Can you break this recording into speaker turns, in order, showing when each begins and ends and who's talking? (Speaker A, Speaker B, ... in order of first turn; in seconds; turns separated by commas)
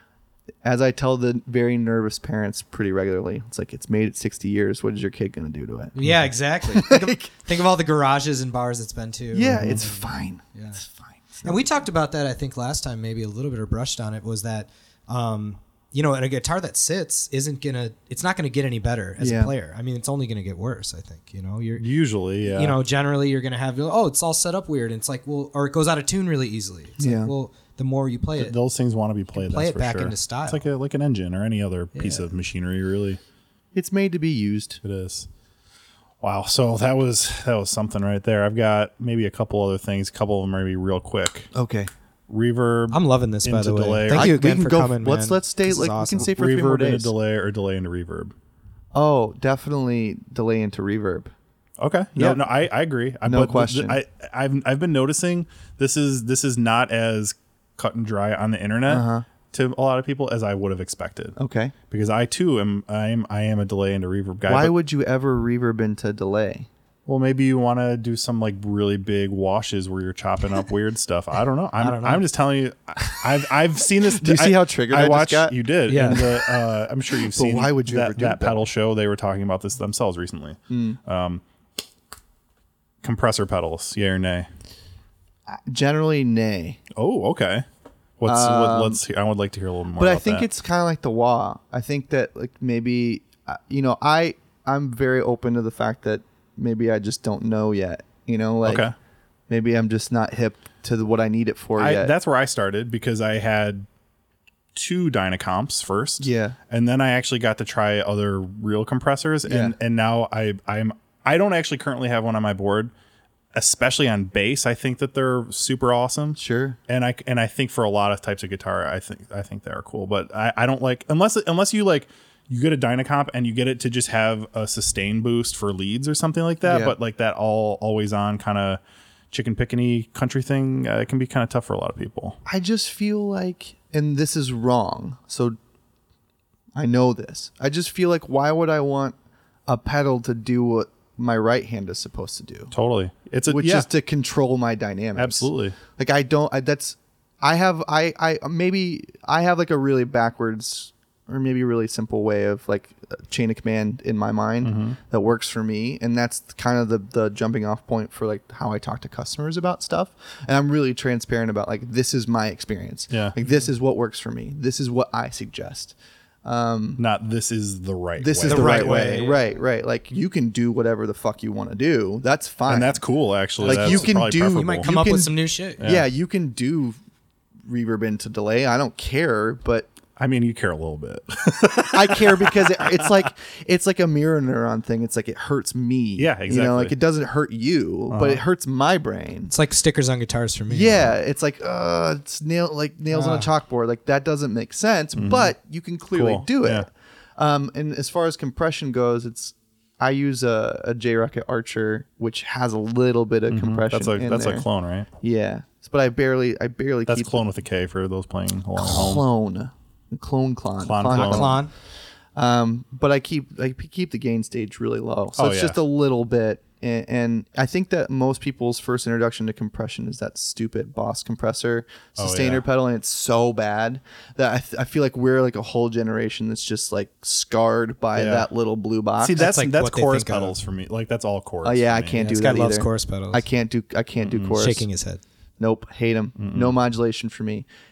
Speaker A: 0.6-5.9, Speaker B: 5.9-10.8, Speaker C: 6.0-6.3, Speaker A: 6.6-7.3, Speaker A: 9.3-11.7, Speaker C: 9.5-9.9, Speaker B: 11.4-21.8, Speaker A: 19.2-19.5, Speaker C: 21.8-22.8, Speaker B: 22.4-28.5, Speaker A: 27.0-27.3, Speaker C: 28.4-33.2, Speaker B: 29.4-30.6, Speaker B: 31.9-32.2, Speaker A: 33.7-34.8, Speaker C: 34.8-35.3, Speaker C: 36.2-41.5, Speaker A: 41.5-41.9, Speaker C: 42.3-44.4, Speaker B: 42.9-46.3, Speaker A: 44.1-47.1, Speaker C: 46.2-48.3, Speaker A: 48.9-51.3, Speaker C: 51.8-61.4, Speaker A: 53.2-54.0, Speaker A: 58.9-59.3, Speaker A: 61.4-61.7, Speaker C: 61.9-64.7, Speaker A: 64.5-66.7, Speaker C: 67.1-81.4, Speaker B: 71.8-72.2, Speaker A: 74.0-76.6, Speaker B: 75.9-76.2, Speaker A: 77.2-78.7, Speaker A: 80.7-81.0, Speaker C: 83.0-84.5, Speaker A: 85.5-86.8, Speaker C: 87.0-87.7, Speaker C: 88.2-90.5, Speaker A: 88.2-89.0, Speaker A: 90.0-98.9, Speaker C: 98.6-98.9, Speaker A: 99.5-102.1, Speaker C: 101.8-103.9, Speaker C: 104.7-112.9, Speaker A: 106.2-106.6, Speaker A: 109.5-109.7, Speaker C: 113.5-132.4, Speaker A: 116.4-116.8, Speaker A: 126.6-126.9, Speaker A: 132.4-135.6, Speaker A: 136.7-139.1, Speaker A: 139.7-142.7, Speaker C: 142.7-143.9, Speaker A: 143.5-167.0, Speaker C: 145.2-145.8, Speaker C: 154.6-155.0, Speaker C: 163.1-163.3, Speaker C: 167.0-169.1, Speaker A: 168.2-173.0, Speaker B: 168.5-169.5, Speaker C: 172.7-174.9, Speaker B: 173.6-175.8, Speaker A: 173.6-176.9, Speaker C: 175.8-176.1, Speaker A: 177.7-179.9, Speaker C: 180.2-183.3, Speaker A: 181.9-189.5, Speaker C: 186.2-186.9, Speaker C: 188.1-188.4, Speaker B: 189.5-191.1, Speaker A: 190.7-204.7, Speaker B: 193.1-193.5, Speaker C: 195.2-195.5, Speaker C: 196.1-196.9, Speaker C: 203.5-205.1, Speaker A: 205.2-207.4, Speaker C: 207.1-209.3, Speaker A: 208.8-211.7, Speaker C: 210.8-211.6, Speaker B: 211.1-211.7, Speaker A: 212.4-229.4, Speaker C: 215.4-215.8, Speaker C: 222.2-222.6, Speaker C: 228.1-228.5, Speaker C: 229.2-232.3, Speaker B: 229.4-230.6, Speaker A: 231.6-234.9, Speaker B: 232.2-233.4, Speaker C: 234.2-234.6, Speaker B: 234.5-235.2, Speaker A: 235.6-237.6, Speaker C: 236.4-236.8